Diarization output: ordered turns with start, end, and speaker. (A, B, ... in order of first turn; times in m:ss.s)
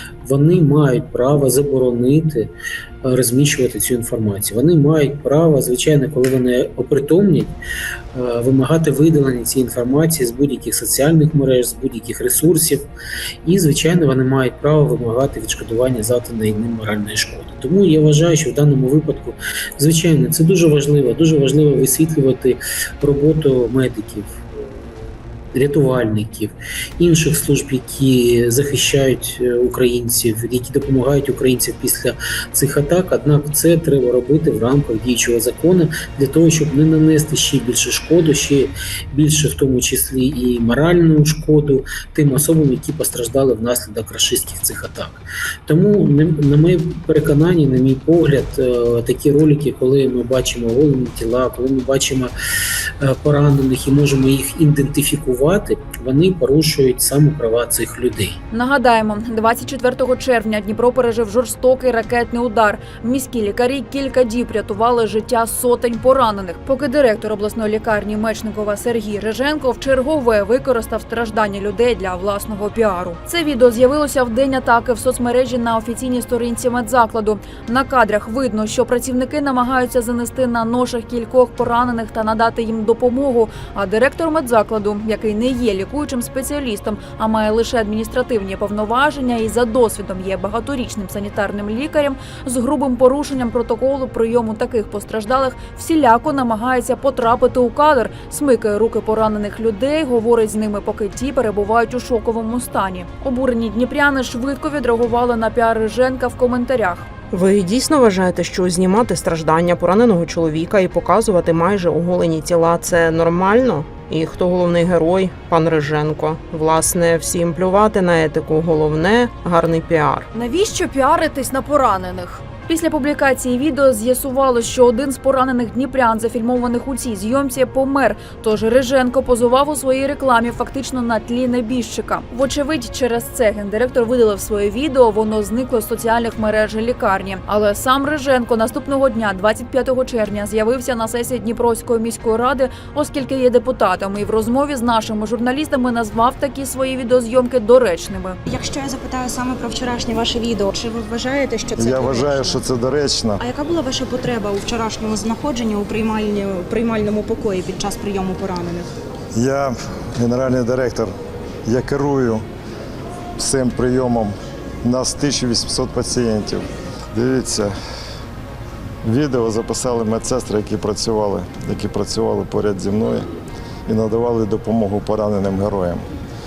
0:00.2-0:02.5 A
0:03.0-0:07.6 A
0:08.1-0:12.9 A
0:13.4-0:24.4 A
0:25.5-0:52.3 A
0:53.0-0:58.4 A
0:58.5-1:47.1 B
1:47.3-2:00.3 C
2:00.3-2:28.4 B
2:28.4-2:32.6 D
2:31.8-2:33.4 E
2:33.4-2:38.9 D
2:39.3-2:41.1 E
2:41.6-2:42.4 E
2:43.4-2:47.7 E
2:49.0-2:53.2 E
2:53.9-2:56.0 E